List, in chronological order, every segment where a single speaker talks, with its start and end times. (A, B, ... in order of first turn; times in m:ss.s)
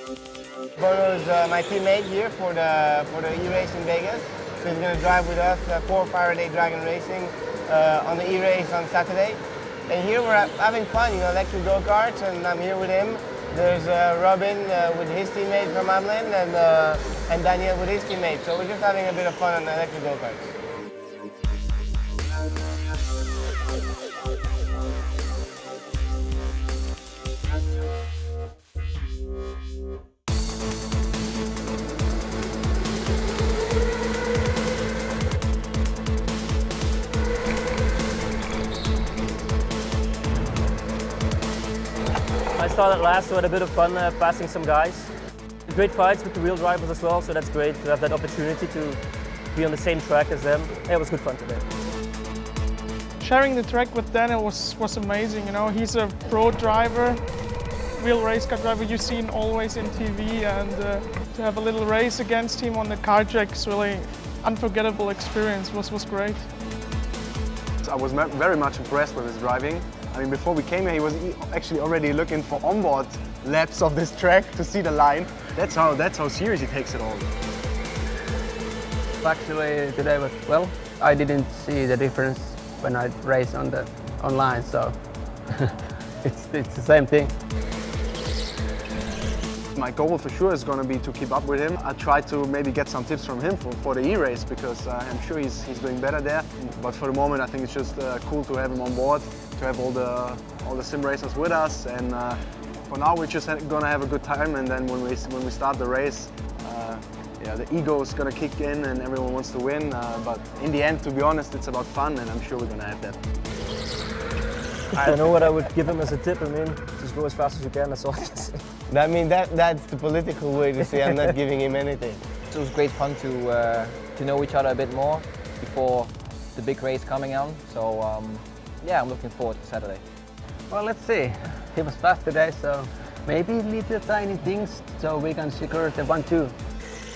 0:00.8-0:20.5 A
0:42.6-0:45.1 B
0:45.7-0:49.0 B
0:49.5-0:51.7 B
0:53.2-0:57.3 C
0:58.0-1:06.5 C
1:07.8-1:17.3 D
1:19.2-1:27.3 E
1:29.8-1:53.2 D
1:54.9-1:58.6 B
1:58.9-2:02.2 A
2:02.5-2:10.0 F
2:10.7-2:16.6 E